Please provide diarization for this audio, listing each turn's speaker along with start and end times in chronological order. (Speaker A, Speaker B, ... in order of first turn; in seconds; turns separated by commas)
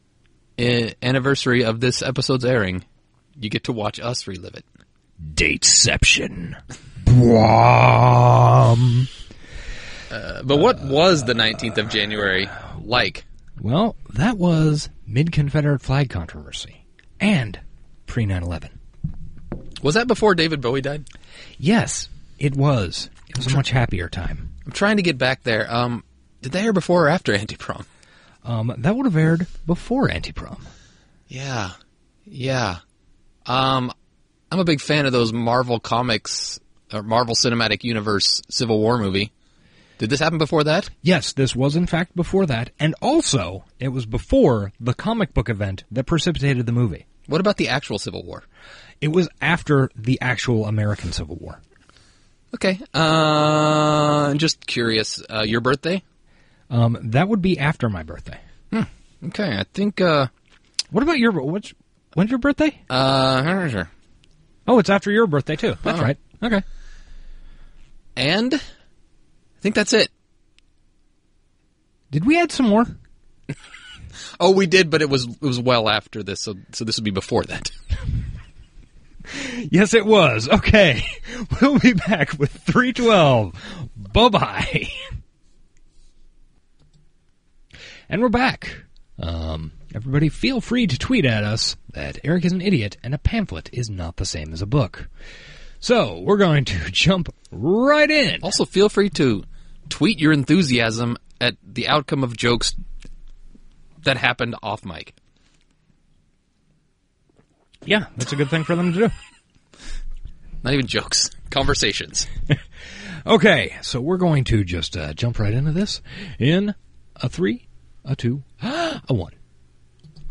Speaker A: 0.6-2.9, Speaker A: 3.4-4.6, Speaker B: 5.2-9.1, Speaker A: 10.1-13.2, Speaker B: 13.6-18.8, Speaker A: 19.8-21.1, Speaker B: 21.6-24.5, Speaker A: 23.3-23.7, Speaker A: 24.7-27.9, Speaker B: 28.4-30.7, Speaker A: 31.3-31.8, Speaker A: 32.3-32.8, Speaker A: 33.5-33.9, Speaker A: 34.5-39.3, Speaker A: 40.0-40.9, Speaker B: 41.0-47.1, Speaker A: 47.3-48.4, Speaker B: 49.0-51.6, Speaker A: 52.5-56.0, Speaker B: 56.7-58.4, Speaker A: 58.7-60.3, Speaker B: 60.9-62.8, Speaker A: 62.9-63.9, Speaker B: 64.7-66.6, Speaker A: 65.8-66.1, Speaker A: 68.2-68.6, Speaker A: 69.6-70.1, Speaker B: 72.1-73.0, Speaker A: 74.4-77.7, Speaker B: 79.3-85.2, Speaker B: 88.1-95.1, Speaker B: 95.8-98.5, Speaker A: 98.4-102.8, Speaker A: 104.0-105.2, Speaker B: 107.9-109.2, Speaker A: 110.6-112.3, Speaker B: 113.2-119.3